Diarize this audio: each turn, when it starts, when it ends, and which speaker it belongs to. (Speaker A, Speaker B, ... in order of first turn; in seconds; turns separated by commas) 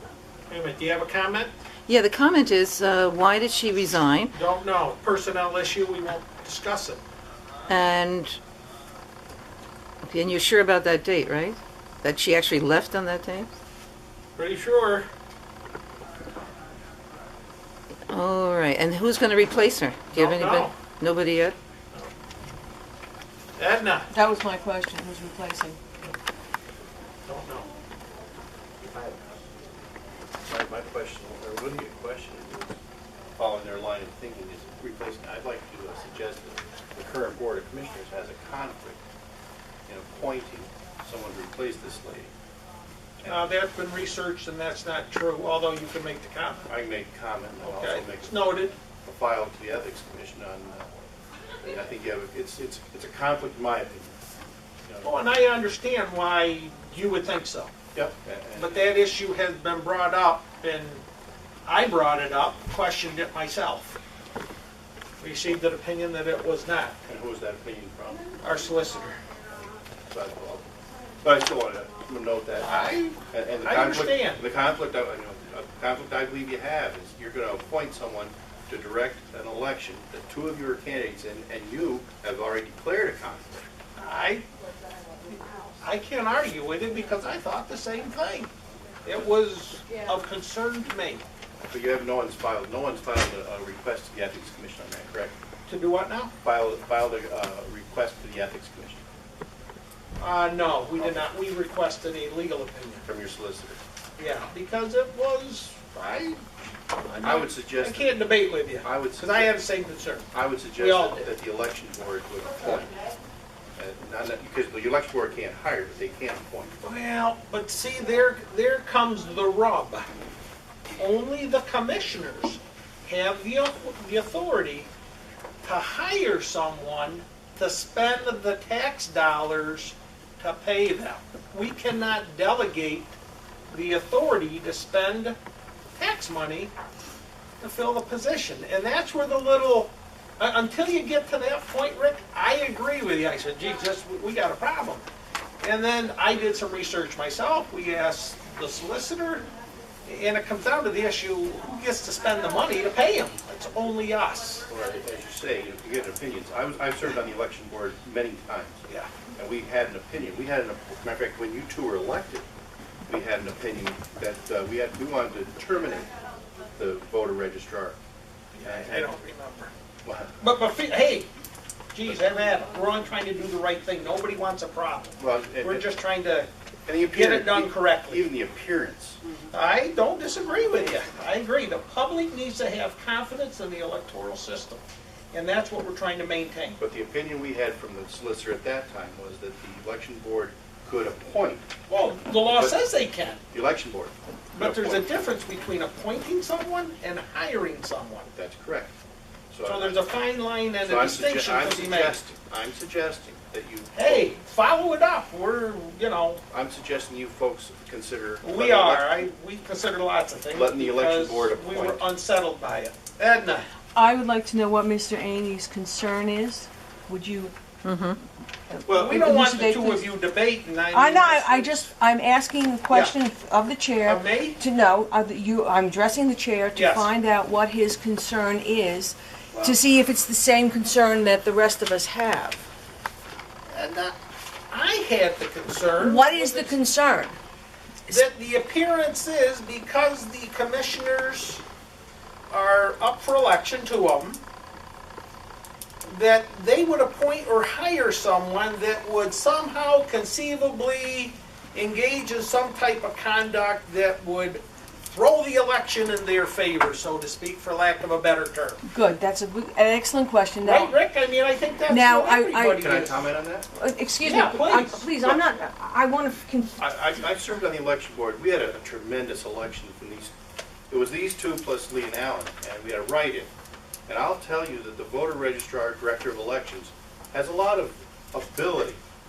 Speaker A: 0.5-1.5, Speaker B: 1.9-4.3, Speaker A: 4.3-7.0, Speaker B: 7.7-8.4, Speaker B: 10.0-13.5, Speaker A: 14.4-15.1, Speaker B: 18.1-21.6, Speaker A: 20.1-20.8, Speaker A: 23.6-24.1, Speaker C: 24.1-25.8, Speaker A: 27.2-27.7, Speaker D: 28.8-29.2, Speaker D: 30.4-32.8, Speaker D: 33.4-39.0, Speaker D: 39.9-42.3, Speaker A: 43.2-46.7, Speaker D: 46.7-50.9, Speaker A: 47.6-48.8, Speaker D: 51.6-54.2, Speaker A: 55.0-57.7, Speaker D: 57.9-58.8, Speaker A: 58.6-61.0, Speaker A: 61.7-64.0, Speaker A: 65.2-67.0, Speaker D: 67.0-68.4, Speaker A: 68.4-69.2, Speaker D: 69.5-70.6, Speaker D: 71.2-83.7, Speaker A: 72.6-74.4, Speaker A: 84.0-84.5, Speaker A: 85.8-88.5, Speaker A: 89.0-91.2, Speaker D: 91.7-95.3, Speaker A: 95.7-96.3, Speaker D: 96.4-99.0, Speaker A: 100.2-103.0, Speaker D: 103.1-103.8, Speaker A: 104.2-106.4, Speaker A: 107.0-111.3, Speaker D: 107.2-108.2, Speaker D: 108.8-109.5, Speaker D: 110.3-112.9, Speaker D: 113.8-116.7, Speaker A: 116.8-120.1, Speaker A: 121.0-124.9, Speaker A: 125.6-133.1, Speaker A: 133.7-135.4, Speaker A: 135.9-136.7, Speaker A: 137.6-145.1, Speaker A: 145.6-149.5, Speaker A: 150.1-154.7, Speaker D: 154.7-158.7, Speaker D: 159.3-162.5, Speaker D: 163.1-166.1, Speaker D: 166.8-167.9, Speaker A: 168.5-169.7, Speaker D: 168.6-169.1, Speaker D: 170.0-170.3, Speaker A: 170.4-171.3, Speaker A: 171.9-176.5, Speaker D: 175.2-175.8, Speaker D: 176.9-179.2, Speaker A: 177.0-178.3, Speaker A: 179.5-186.8, Speaker D: 186.8-191.7, Speaker A: 191.9-193.4, Speaker D: 192.5-192.8, Speaker D: 193.5-195.1, Speaker A: 194.5-198.3, Speaker D: 198.3-198.9, Speaker D: 199.5-200.1, Speaker A: 199.6-202.2, Speaker D: 200.8-204.3, Speaker A: 203.9-206.4, Speaker D: 206.5-209.1, Speaker A: 208.4-213.7, Speaker D: 210.5-212.0, Speaker C: 213.9-217.5, Speaker B: 217.8-218.2, Speaker C: 218.7-220.1, Speaker A: 218.8-221.9, Speaker C: 220.9-232.6, Speaker A: 222.9-223.2, Speaker A: 224.0-224.6, Speaker A: 226.7-227.1, Speaker A: 229.5-229.8, Speaker A: 233.7-234.2, Speaker A: 234.7-236.8, Speaker C: 236.0-237.4, Speaker A: 238.1-241.6, Speaker A: 242.5-244.4, Speaker A: 246.1-258.8, Speaker C: 258.9-260.9, Speaker A: 260.6-263.2, Speaker C: 261.9-262.9, Speaker D: 262.8-263.7, Speaker C: 263.7-266.8, Speaker A: 264.2-265.1, Speaker D: 265.2-265.5, Speaker D: 266.8-270.3, Speaker D: 270.9-273.5, Speaker D: 274.1-279.0